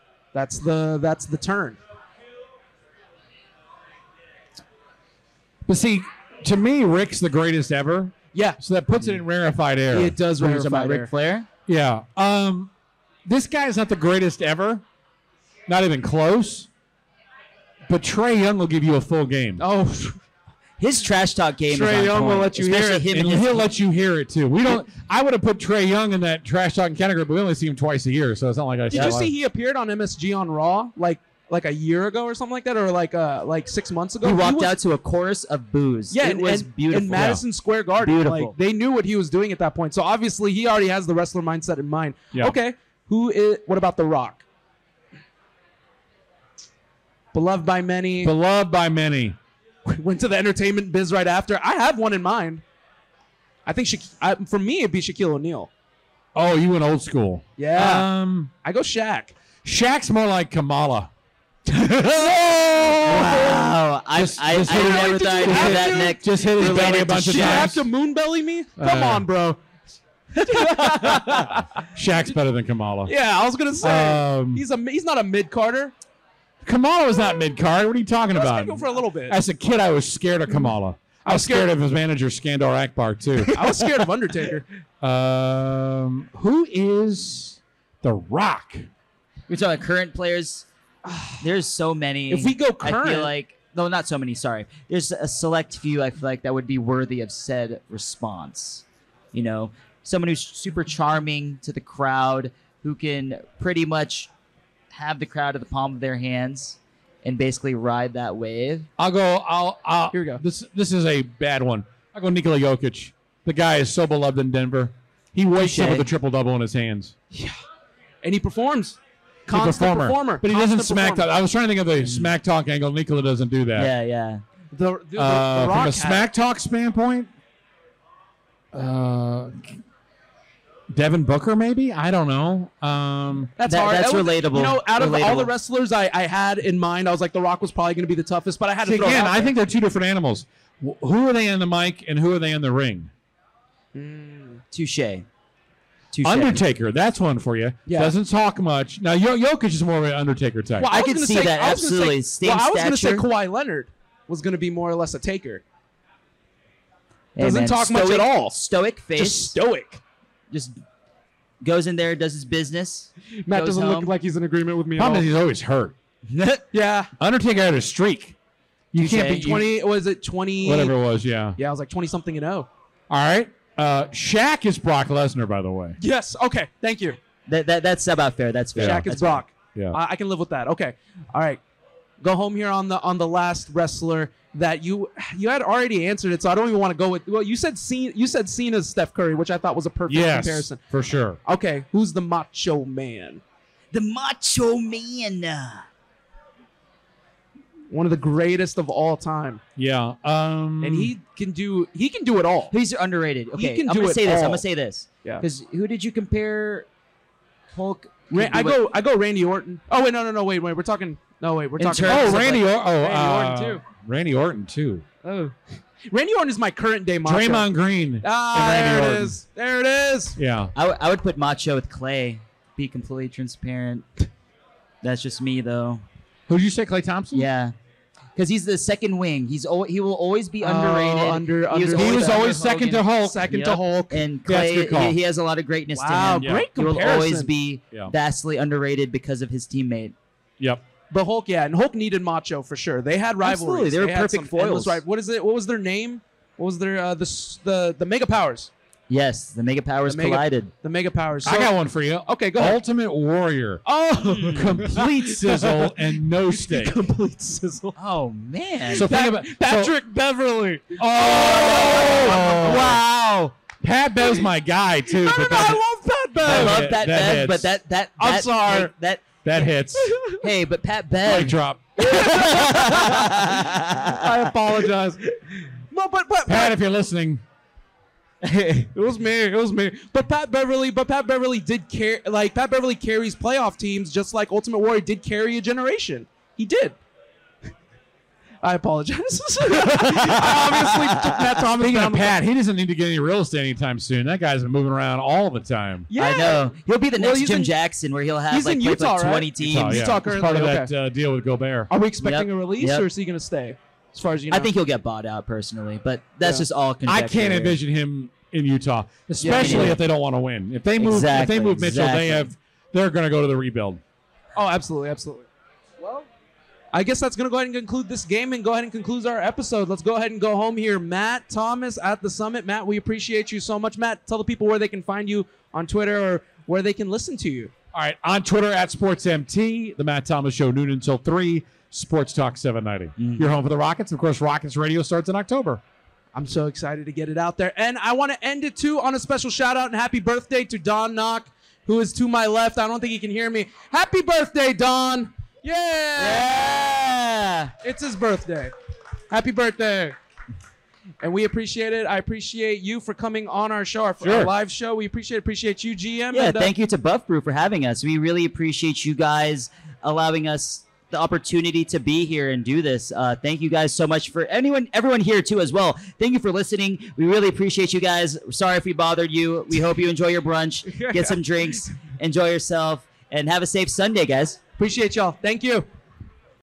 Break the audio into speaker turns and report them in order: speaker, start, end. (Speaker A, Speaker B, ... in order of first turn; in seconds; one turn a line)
Speaker A: 0.3-1.8
Speaker B: 5.7-10.2
Speaker A: 8.3-8.6
Speaker A: 9.9-11.1
Speaker C: 10.4-11.5
Speaker B: 11.7-12.7
Speaker B: 13.2-14.8
Speaker B: 15.7-16.7
Speaker B: 17.9-19.6
Speaker A: 19.6-20.2
Speaker C: 20.8-23.6
Speaker A: 21.7-23.1
Speaker B: 23.1-29.3
Speaker A: 28.9-34.7
Speaker C: 34.2-37.5
Speaker A: 36.1-44.4
Speaker C: 38.0-38.5
Speaker A: 47.3-48.3
Speaker B: 48.2-49.4
Speaker A: 49.9-52.6
Speaker A: 53.6-55.7
Speaker B: 56.3-58.5
Speaker A: 57.6-58.1
Speaker A: 58.6-59.4
Speaker B: 59.6-61.1
Speaker B: 62.2-63.6
Speaker A: 62.9-63.6
Speaker C: 63.0-67.7
Speaker B: 64.1-67.8
Speaker A: 64.7-69.6
Speaker B: 68.8-69.2
Speaker A: 70.4-71.7
Speaker B: 71.9-73.1
Speaker A: 73.0-75.9
Speaker B: 73.8-74.6
Speaker B: 76.6-84.0
Speaker A: 78.3-79.3
Speaker A: 81.2-81.7
Speaker A: 83.5-84.6
Speaker B: 85.0-88.9
Speaker C: 89.5-90.7
Speaker A: 91.0-91.3
Speaker C: 91.4-104.3
Speaker A: 92.3-93.3
Speaker C: 104.9-108.9
Speaker B: 109.0-117.1
Speaker A: 110.1-110.4
Speaker C: 115.6-116.1
Speaker A: 118.2-121.3
Speaker B: 119.5-123.9
Speaker C: 122.0-122.3
Speaker C: 123.7-124.4
Speaker A: 124.7-126.3
Speaker B: 125.2-127.3
Speaker B: 128.7-129.8
Speaker B: 130.9-133.5
Speaker A: 133.6-139.5
Speaker C: 133.7-135.5
Speaker B: 138.8-143.1
Speaker A: 143.9-144.6
Speaker C: 144.7-145.2
Speaker C: 146.1-146.6
Speaker B: 146.2-150.9
Speaker A: 147.8-148.1
Speaker A: 150.8-155.6
Speaker C: 150.9-153.3
Speaker C: 157.3-159.6
Speaker A: 157.4-158.6
Speaker A: 159.2-160.0
Speaker C: 160.5-160.8
Speaker C: 161.6-164.1
Speaker A: 163.4-165.2
Speaker B: 164.9-165.9
Speaker C: 166.3-166.6
Speaker A: 166.7-167.1
Speaker B: 167.2-168.3
Speaker B: 168.9-169.8
Speaker A: 169.0-170.9
Speaker B: 170.6-171.6
Speaker A: 171.6-172.7
Speaker B: 173.1-176.0
Speaker A: 176.0-177.2
Speaker C: 177.5-179.4
Speaker B: 178.8-179.1
Speaker A: 178.8-181.6
Speaker A: 182.2-190.8
Speaker B: 190.1-191.4
Speaker A: 191.4-193.4
Speaker C: 193.9-195.8
Speaker A: 197.9-199.6
Speaker B: 199.8-201.1
Speaker A: 200.8-202.7
Speaker C: 202.7-206.9
Speaker A: 203.5-204.6
Speaker C: 207.7-208.8
Speaker A: 208.3-213.8
Speaker C: 211.8-212.7
Speaker B: 212.1-215.0
Speaker A: 215.2-215.5
Speaker A: 216.1-217.7
Speaker B: 217.2-219.3
Speaker A: 218.2-220.4
Speaker B: 220.4-220.7
Speaker C: 220.7-224.1
Speaker C: 225.0-226.0
Speaker B: 226.5-227.5
Speaker C: 227.3-227.7
Speaker C: 228.3-240.1
Speaker A: 230.6-234.2
Speaker B: 231.9-233.4
Speaker B: 234.4-235.2
Speaker A: 235.9-237.5
Speaker B: 236.4-236.7
Speaker B: 240.6-240.8
Speaker A: 241.1-248.7
Speaker C: 243.4-245.0
Speaker C: 249.1-250.7
Speaker A: 250.1-251.7
Speaker B: 251.4-253.8
Speaker A: 252.2-252.8
Speaker A: 253.8-257.9
Speaker C: 254.3-254.6
Speaker B: 254.5-256.9
Speaker C: 257.9-259.1
Speaker A: 258.9-263.1
Speaker B: 258.9-259.9
Speaker B: 261.0-263.0
Speaker C: 261.8-263.5
Speaker B: 263.8-265.8
Speaker A: 265.1-266.8
Speaker B: 266.4-267.7
Speaker C: 266.4-269.2
Speaker A: 268.2-268.9
Speaker B: 269.4-270.2
Speaker A: 270.1-270.4
Speaker C: 270.4-274.5
Speaker B: 271.2-272.1
Speaker A: 272.1-273.4
Speaker A: 274.1-275.2
Speaker A: 275.9-276.7
Speaker B: 276.5-277.4
Speaker C: 278.4-278.9
Speaker A: 278.9-287.0
Speaker A: 288.6-292.3
Speaker B: 289.8-290.8
Speaker C: 290.9-291.6
Speaker B: 291.7-296.1
Speaker A: 296.1-297.7
Speaker C: 296.1-300.1
Speaker A: 298.5-300.9
Speaker B: 299.6-301.9
Speaker A: 301.9-304.7
Speaker C: 302.2-303.1
Speaker C: 304.5-307.8
Speaker B: 307.1-314.0
Speaker A: 309.4-310.0
Speaker C: 309.4-310.0
Speaker C: 311.0-312.5
Speaker A: 314.6-315.5
Speaker A: 316.9-327.7
Speaker B: 327.9-335.8
Speaker C: 333.2-333.5
Speaker A: 336.3-346.9
Speaker C: 346.1-347.7
Speaker A: 347.8-348.7
Speaker A: 349.3-350.1
Speaker A: 351.2-356.7
Speaker B: 354.2-354.5
Speaker C: 356.3-374.6
Speaker A: 370.9-371.9
Speaker A: 374.8-375.9